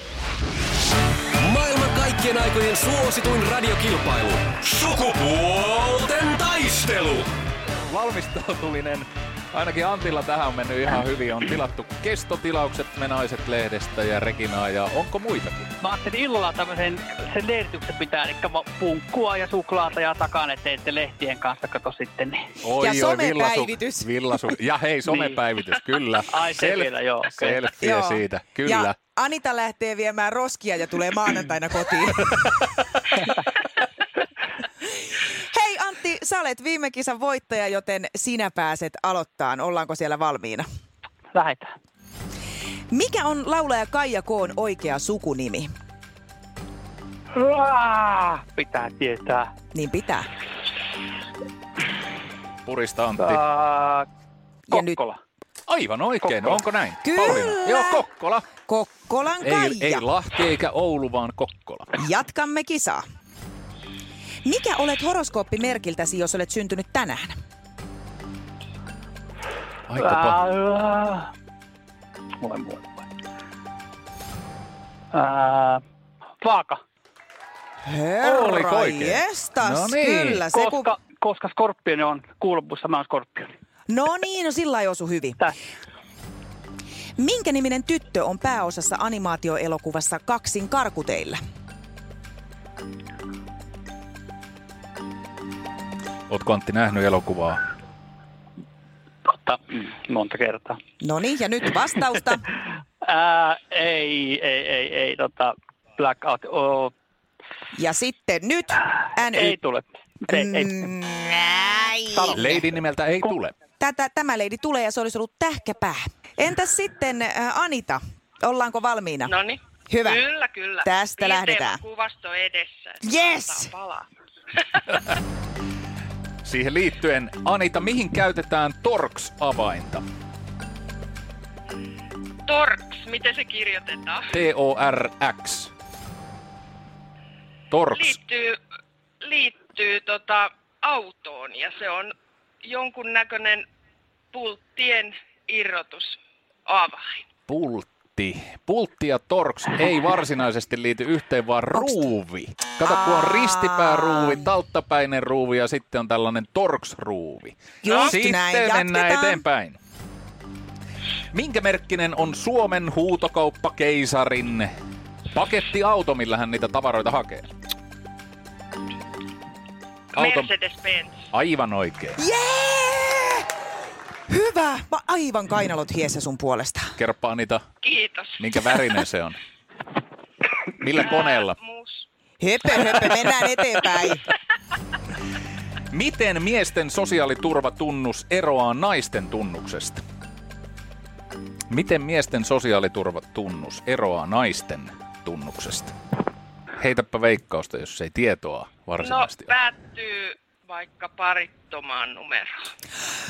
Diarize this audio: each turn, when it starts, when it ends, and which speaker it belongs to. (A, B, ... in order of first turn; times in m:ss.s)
0:01.4-0:07.3 A
0:07.9-0:15.7 B
0:15.8-0:22.6 C
0:22.6-0:29.0 B
0:22.8-0:24.1 D
0:25.0-0:25.4 C
0:26.3-0:27.7 C
0:27.8-0:32.5 D
0:35.4-0:40.7 D
0:41.3-0:41.7 C
0:42.9-0:45.7 D
0:47.4-0:49.5 C
0:49.7-0:50.3 D
0:52.6-0:53.4 B
0:53.2-0:54.1 C
0:54.7-0:55.0 D
0:54.7-0:55.2 C
0:55.7-0:58.5 B
0:56.2-0:56.6 C
0:57.0-0:58.0 D
0:58.7-1:00.0 D
0:59.4-1:01.9 B
1:02.0-1:03.0 D
1:04.4-1:07.3 D
1:09.9-1:10.4 B
1:10.0-1:11.3 C
1:12.4-1:13.0 C
1:15.1-1:15.8 C
1:16.4-1:16.8 C
1:17.8-1:20.9 D
1:18.2-1:20.5 B
1:20.5-1:23.5 C
1:23.9-1:25.4 D
1:27.2-1:31.4 D
1:36.3-1:37.6 B
1:39.3-1:40.8 C
1:41.0-1:42.4 D
1:43.0-1:46.9 C
1:47.7-1:49.6 D
1:49.3-1:50.8 C
1:50.3-1:52.6 D
1:52.1-1:52.6 C
1:52.4-1:53.5 B
1:53.8-1:59.4 D
1:59.3-2:04.0 E
1:59.9-2:00.2 D
2:00.8-2:01.8 D
2:03.0-2:03.7 D
2:06.4-2:10.0 B
2:12.5-2:14.3 E
2:14.3-2:15.7 B
2:17.7-2:18.2 B
2:17.9-2:18.6 E
2:19.2-2:22.1 E
2:22.6-2:23.6 E
2:24.3-2:27.2 E
2:27.5-2:39.8 B
2:31.7-2:32.1 D
2:32.8-2:34.4 D
2:37.8-2:39.4 D
2:37.9-2:38.1 E
2:41.3-2:44.7 B
2:45.3-2:47.5 B
2:50.1-2:51.2 E
2:50.1-2:50.5 B
2:51.3-2:52.2 B
2:52.2-2:53.5 D
2:54.3-2:57.0 D
2:57.0-2:57.7 B
2:57.8-2:58.5 E
2:58.4-2:59.4 B
3:00.8-3:01.6 B
3:00.9-3:02.1 E
3:02.4-3:04.2 D
3:05.9-3:10.0 B
3:11.7-3:15.9 B
3:16.8-3:19.6 B
3:19.0-3:22.5 E